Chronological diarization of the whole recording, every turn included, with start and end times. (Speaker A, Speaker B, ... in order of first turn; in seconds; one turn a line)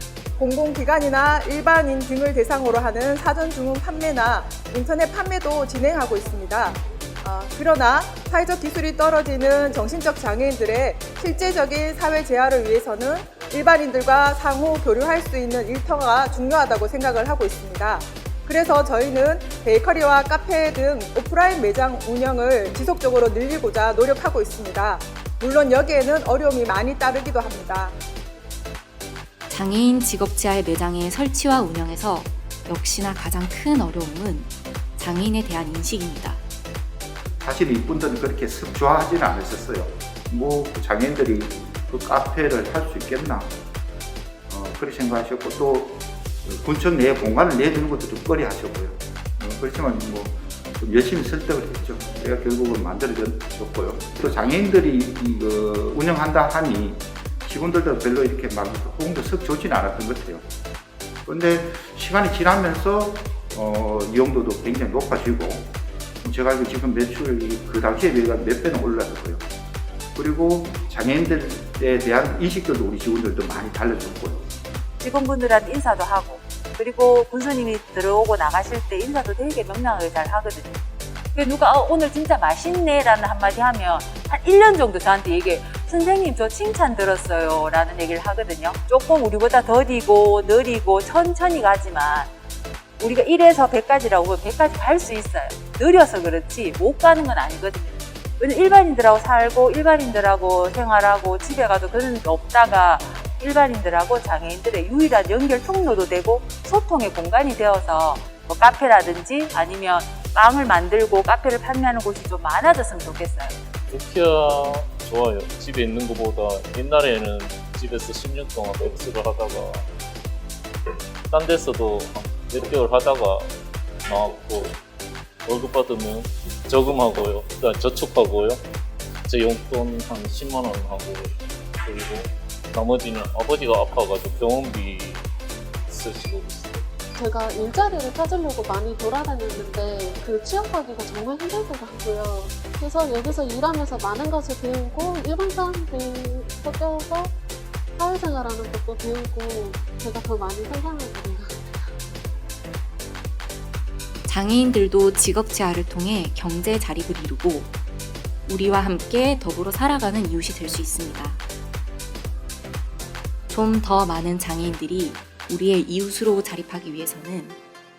Speaker A: 0.4-28.0
Speaker B: 29.5-36.4
Speaker C: 37.4-43.6
Speaker C: 44.5-60.5
Speaker C: 61.3-69.5
Speaker C: 70.2-74.5
Speaker D: 75.0-80.8
Speaker D: 81.3-92.3
Speaker D: 93.0-113.5
Speaker E: 113.9-119.9
Speaker E: 121.3-123.5
Speaker E: 124.0-124.8
Speaker E: 125.5-128.6
Speaker E: 129.2-135.3
Speaker E: 135.9-136.8
Speaker F: 137.2-147.3
Speaker F: 148.0-151.9
Speaker B: 154.3-157.7
Speaker B: 158.5-161.4
Speaker B: 163.5-167.6